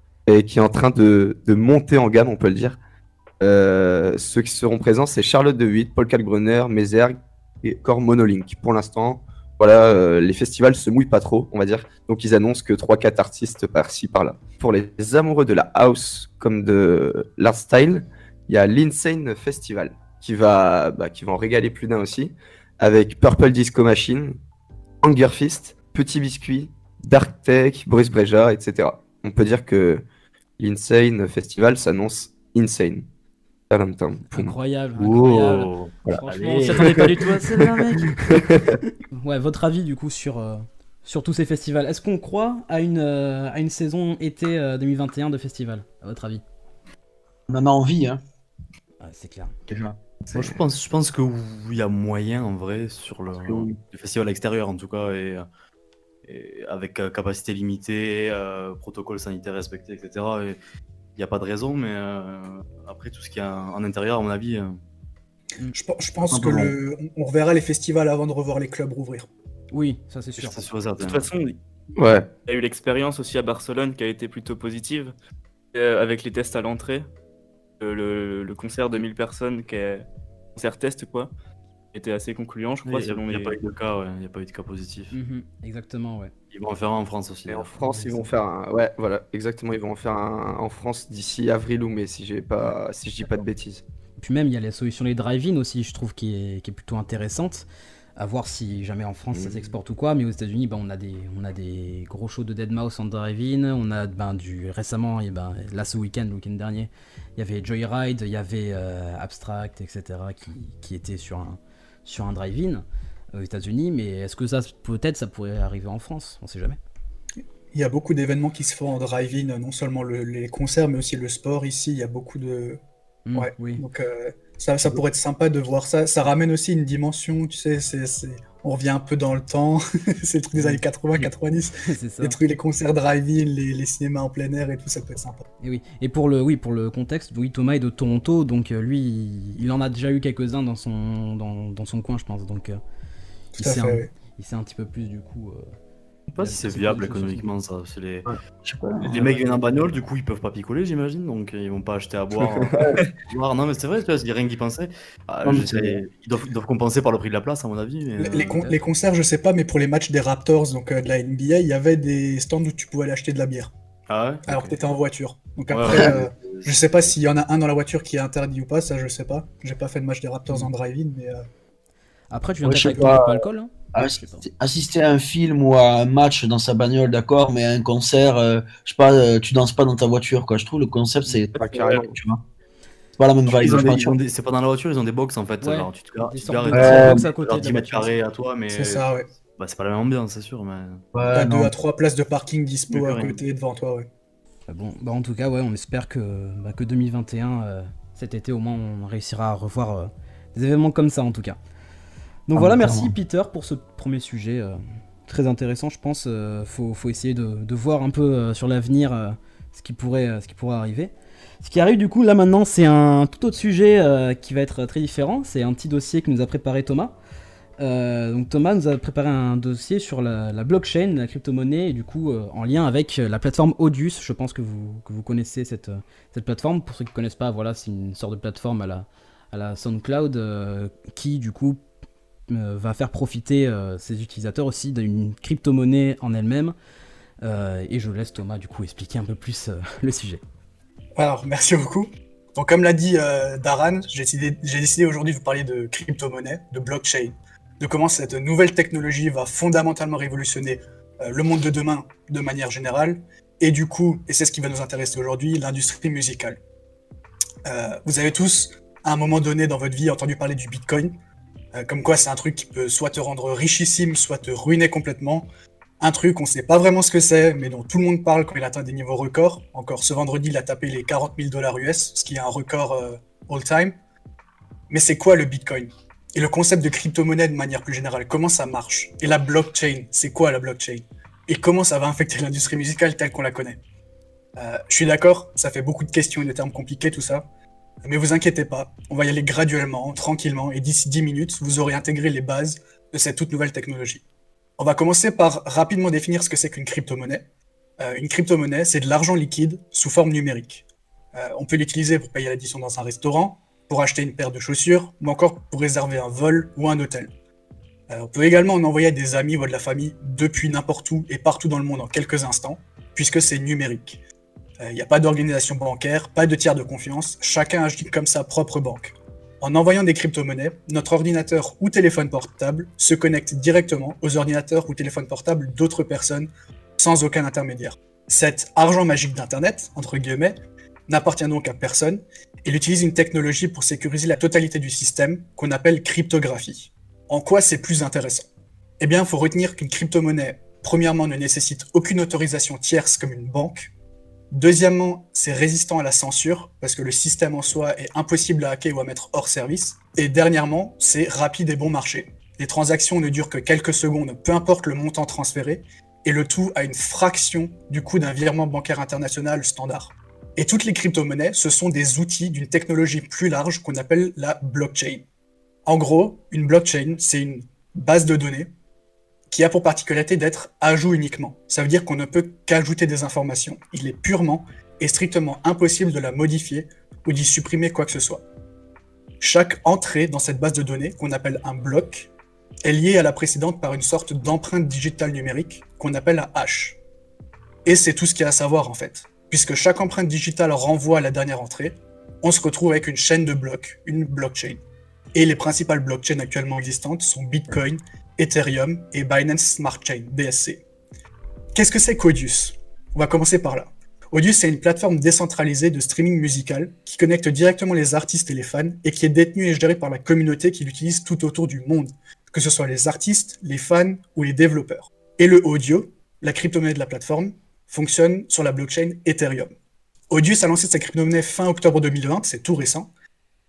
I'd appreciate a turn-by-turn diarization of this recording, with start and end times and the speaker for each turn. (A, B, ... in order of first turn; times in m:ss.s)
0:00.3-0:02.8 A
0:03.4-0:24.4 A
0:25.0-0:30.0 A
0:30.6-0:33.0 A
0:33.7-0:34.6 A
0:34.3-0:38.6 B
0:35.0-0:37.3 C
0:36.7-0:37.6 A
0:38.3-0:38.8 A
0:39.2-0:46.4 B
0:47.5-0:48.2 D
0:49.0-0:49.6 B
0:49.7-0:50.0 D
0:50.3-0:55.4 C
0:53.4-0:53.8 D
0:56.2-1:00.6 C
1:01.2-1:04.8 C
1:05.7-1:09.3 E
1:06.3-1:06.7 D
1:09.7-1:10.7 B
1:10.4-1:11.2 C
1:11.0-1:11.6 F
1:12.0-1:12.3 A
1:12.5-1:15.1 F
1:15.7-1:17.1 F
1:17.8-1:20.0 F
1:20.6-1:21.3 F
1:21.9-1:23.6 F
1:22.8-1:25.1 C
1:25.1-1:26.3 B
1:26.5-1:28.1 C
1:27.5-1:33.8 A
1:34.2-1:37.7 B
1:38.2-1:56.8 B
1:39.3-1:39.6 A
1:57.7-2:02.8 E
2:03.3-2:03.8 B
2:03.4-2:15.4 E
2:10.6-2:10.8 B
2:11.8-2:12.4 B
2:15.6-2:22.8 B
2:23.6-2:24.1 E
2:23.6-2:25.6 B
2:26.3-2:28.3 C
2:26.4-2:27.5 B
2:28.2-2:29.8 D
2:29.0-2:38.7 C
2:32.7-2:33.0 D
2:35.4-2:36.0 D
2:38.2-2:43.7 E
2:44.1-2:44.8 C
2:44.5-2:51.5 E
2:45.7-2:46.8 C
2:52.3-2:54.5 B
2:52.6-2:53.4 D
2:53.9-3:02.4 D
3:01.6-3:02.1 A
3:03.2-3:04.2 D
3:03.5-3:11.0 C
3:05.6-3:08.2 B
3:06.7-3:07.2 D
3:08.7-3:09.3 E
3:11.1-3:11.7 D
3:11.3-3:14.1 E
3:12.9-3:13.4 C
3:14.7-3:21.6 B
3:22.5-3:37.1 B
3:22.6-3:23.1 D
3:37.8-3:51.8 B
3:52.5-3:56.8 B
3:57.4-4:00.4 B
4:01.2-4:16.6 E
4:17.7-4:21.1 E
4:21.7-4:25.5 E
4:26.0-4:34.0 E
4:34.9-4:43.8 E
4:44.6-4:47.5 E
4:48.0-4:54.2 E
4:54.8-4:57.5 E
4:58.0-5:00.8 E
5:01.4-5:07.3 E
5:08.1-5:14.2 E
5:14.8-5:38.5 E
5:39.0-5:43.9 E
5:44.5-6:05.2 E
6:05.9-6:08.7 E
6:09.5-6:18.4 E
6:19.4-6:22.3 E
6:22.8-6:27.0 E
6:27.8-6:34.8 E
6:35.4-6:40.8 E
6:41.8-6:59.8 E
7:00.3-7:03.1 E